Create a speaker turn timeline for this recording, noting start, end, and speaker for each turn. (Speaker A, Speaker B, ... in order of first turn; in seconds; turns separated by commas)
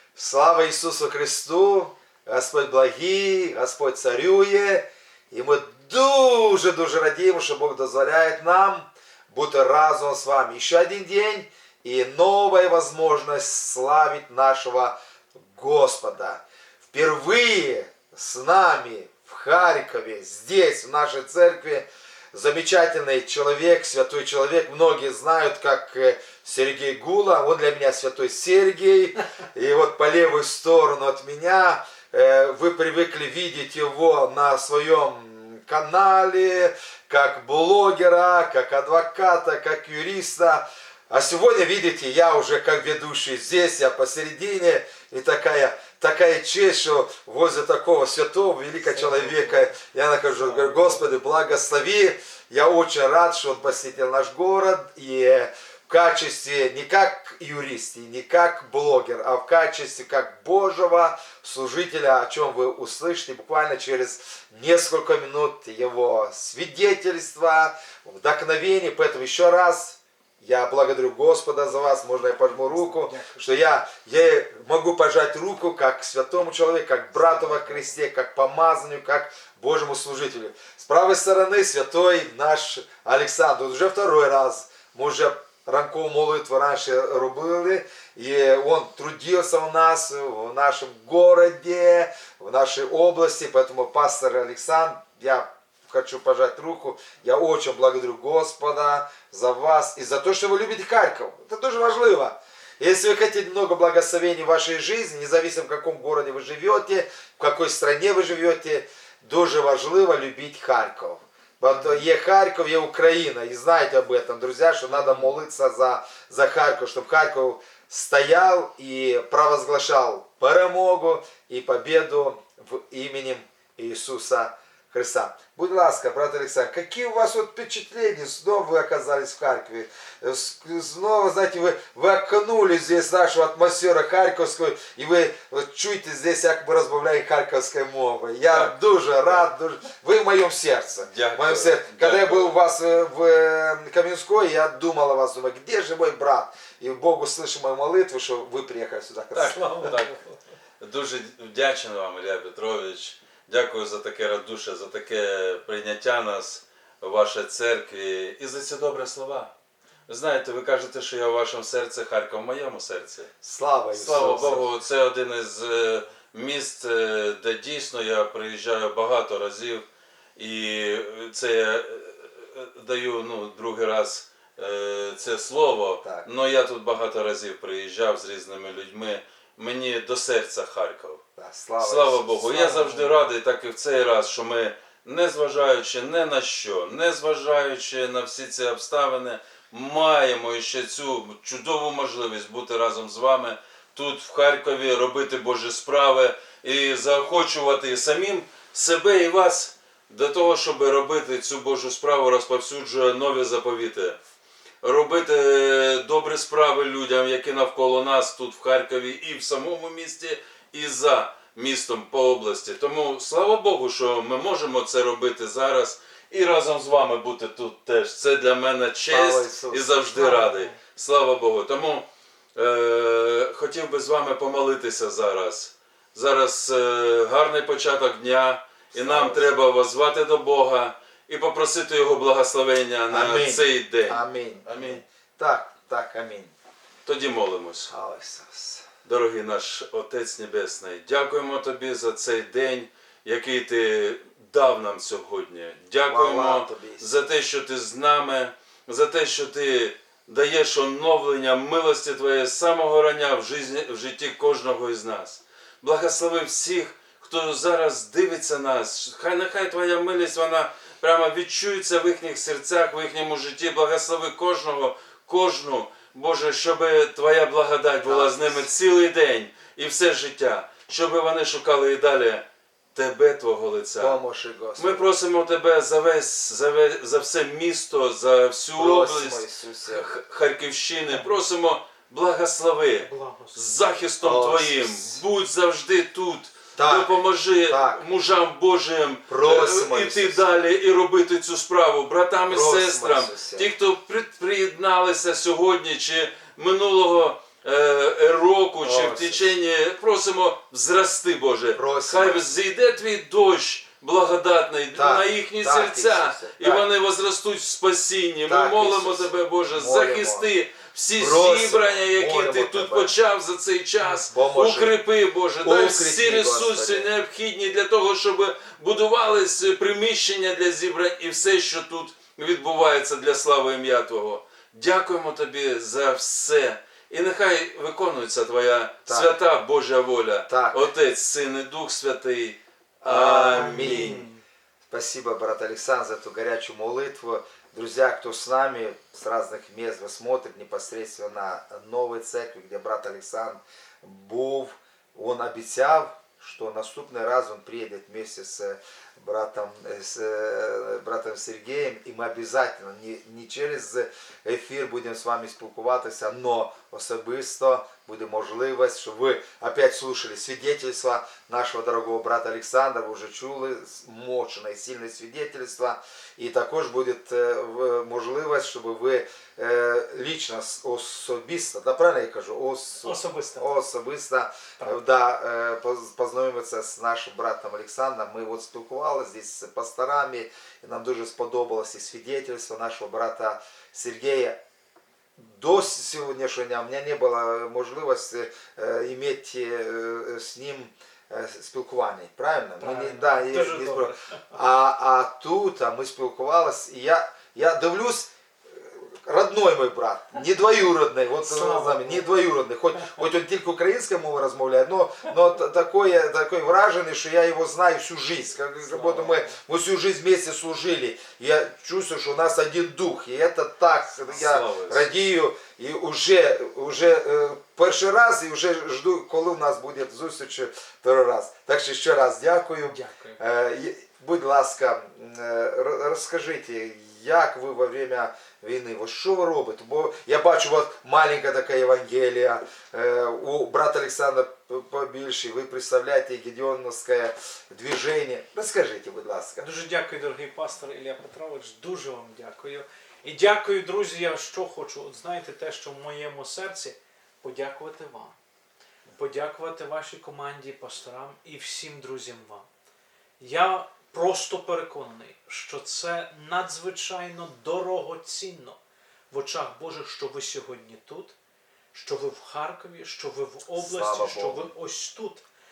Speaker A: 0.1-150.0, Speaker B: 48.8-49.7, Speaker B: 50.4-51.0, Speaker B: 72.2-73.6, Speaker B: 77.1-77.9, Speaker B: 114.9-115.3, Speaker C: 138.5-139.4, Speaker C: 141.0-142.6, Speaker C: 149.3-150.2, Speaker B: 149.4-150.2, Speaker C: 150.8-159.5, Speaker C: 160.1-163.3, Speaker A: 163.4-164.7, Speaker C: 163.9-169.8, Speaker C: 170.3-181.2, Speaker A: 176.0-176.3, Speaker A: 181.3-183.2, Speaker C: 181.8-204.2, Speaker C: 204.8-235.0, Speaker A: 219.1-219.8, Speaker B: 220.1-220.8, Speaker A: 228.9-229.5, Speaker A: 233.1-236.5, Speaker C: 237.0-237.9, Speaker A: 237.9-238.9, Speaker C: 239.0-272.4, Speaker A: 246.1-247.1, Speaker A: 268.0-268.7, Speaker C: 272.9-274.2, Speaker A: 274.0-275.1, Speaker C: 274.8-334.3, Speaker A: 278.7-280.1, Speaker B: 281.1-281.4, Speaker B: 283.0-283.9, Speaker A: 284.2-285.2, Speaker A: 286.8-288.0, Speaker A: 289.3-290.5, Speaker A: 292.5-293.7, Speaker A: 298.8-299.5, Speaker A: 301.7-302.4, Speaker A: 304.9-306.9, Speaker A: 308.4-310.5, Speaker A: 311.2-313.1, Speaker A: 314.3-315.0, Speaker A: 315.6-317.1, Speaker A: 329.1-329.3, Speaker A: 330.5-330.9, Speaker A: 333.0-334.3, Speaker B: 333.5-334.4, Speaker A: 334.9-384.6, Speaker B: 373.0-373.7, Speaker A: 385.4-439.7, Speaker B: 392.8-394.4, Speaker B: 401.4-402.3, Speaker B: 408.8-409.5, Speaker C: 414.3-415.1, Speaker B: 422.8-423.4, Speaker B: 439.6-448.4, Speaker B: 449.1-452.7, Speaker B: 453.4-458.8, Speaker B: 459.3-461.3, Speaker B: 461.9-465.4, Speaker A: 463.8-464.7